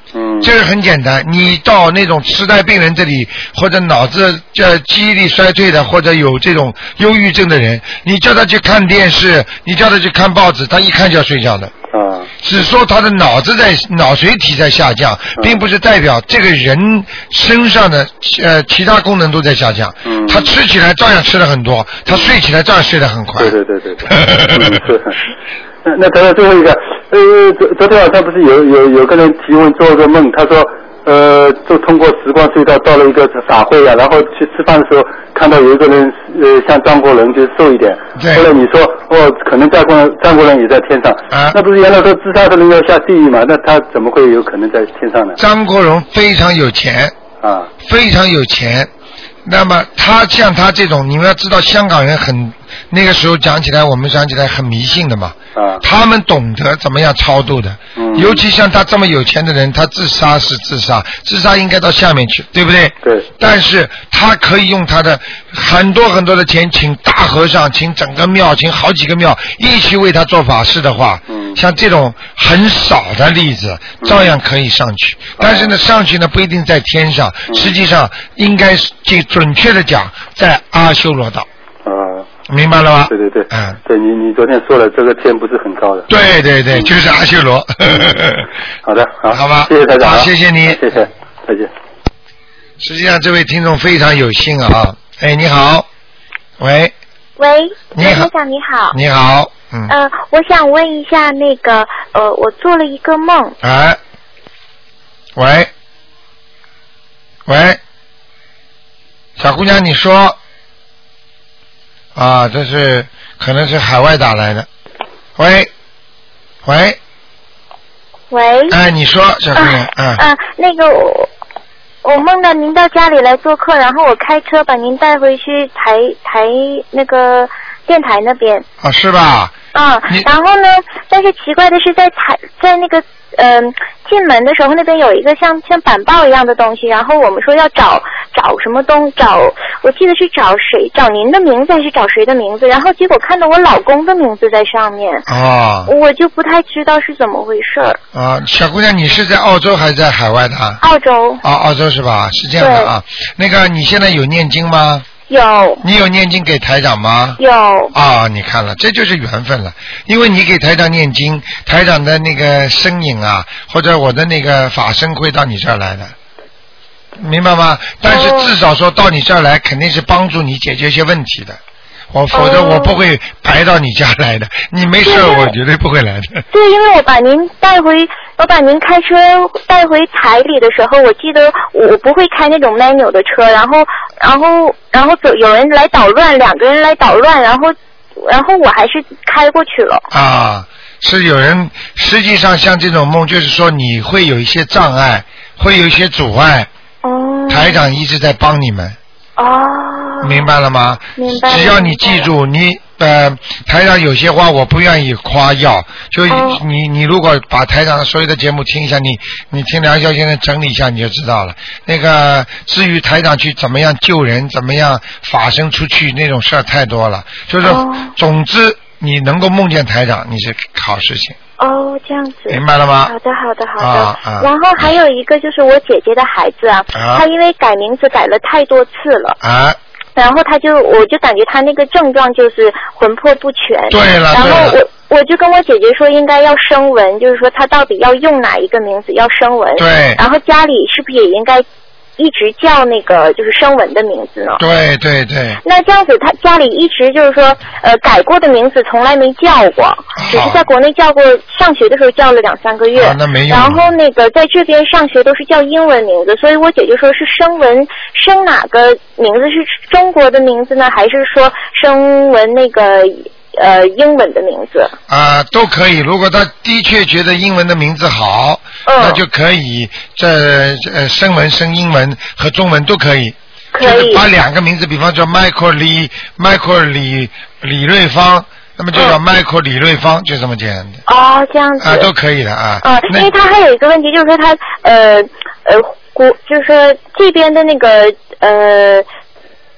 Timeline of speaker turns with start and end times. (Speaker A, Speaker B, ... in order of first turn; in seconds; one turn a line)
Speaker A: 0.1-0.5
Speaker B: 0.4-11.7
Speaker A: 11.9-12.3
Speaker B: 12.4-23.6
Speaker A: 20.1-20.5
Speaker A: 23.4-25.2
Speaker B: 24.1-24.8
Speaker A: 25.8-45.4
Speaker B: 38.1-38.5
Speaker B: 41.3-41.6
Speaker B: 45.4-47.1
Speaker A: 47.4-47.7
Speaker B: 47.8-48.9
Speaker B: 49.4-81.5
Speaker A: 55.5-55.8
Speaker A: 58.0-58.4
Speaker A: 63.0-63.3
Speaker A: 71.3-71.6
Speaker A: 74.0-74.3
Speaker A: 75.4-75.7
Speaker A: 81.8-82.3
Speaker B: 82.5-83.8
Speaker A: 83.1-86.1
Speaker B: 86.1-88.5
Speaker A: 88.8-91.7
Speaker B: 89.3-90.8
Speaker B: 92.8-95.9
Speaker B: 96.6-96.9
Speaker C: 97.4-99.0
Speaker B: 97.9-98.3
Speaker B: 98.9-99.9
Speaker C: 99.9-103.5
Speaker B: 103.6-104.0
Speaker B: 105.3-105.7
Speaker B: 107.5-107.8
Speaker B: 109.4-110.4
Speaker B: 112.1-114.7
Speaker B: 115.4-115.7
Speaker B: 116.6-117.0
Speaker C: 118.3-118.8
Speaker B: 118.7-120.2
Speaker C: 119.5-121.3
Speaker C: 122.0-128.6
Speaker B: 128.8-129.5
Speaker C: 129.7-145.2
Speaker B: 145.3-145.9
Speaker C: 145.9-148.0
Speaker B: 148.1-150.8
Speaker C: 150.8-151.4
Speaker B: 151.4-155.1
Speaker C: 152.6-152.9
Speaker C: 155.3-155.8
Speaker B: 155.8-157.4
Speaker C: 157.4-157.9
Speaker B: 157.9-166.1
Speaker B: 167.2-171.6
Speaker C: 168.0-168.5
Speaker B: 172.1-176.4
Speaker C: 172.3-173.0
Speaker C: 175.0-175.5
Speaker C: 176.5-190.0
Speaker B: 190.1-196.7
Speaker C: 197.0-197.8
Speaker B: 197.5-199.0
Speaker C: 199.4-200.5
Speaker B: 200.2-221.4
Speaker C: 201.2-202.3
Speaker C: 206.3-206.6
Speaker C: 217.6-218.1
Speaker C: 221.6-229.4
Speaker B: 222.5-223.1
Speaker B: 223.8-224.5
Speaker B: 226.9-227.2
Speaker B: 229.4-229.8
Speaker C: 230.2-241.6
Speaker B: 233.9-234.8
Speaker B: 239.8-240.2
Speaker C: 242.2-244.6
Speaker B: 244.6-245.6
Speaker C: 245.6-264.9
Speaker B: 250.2-250.6
Speaker B: 252.9-253.9
Speaker B: 265.1-281.0
Speaker C: 268.9-269.2
Speaker C: 273.7-274.2
Speaker C: 281.1-282.1
Speaker B: 281.8-283.3
Speaker C: 282.8-289.1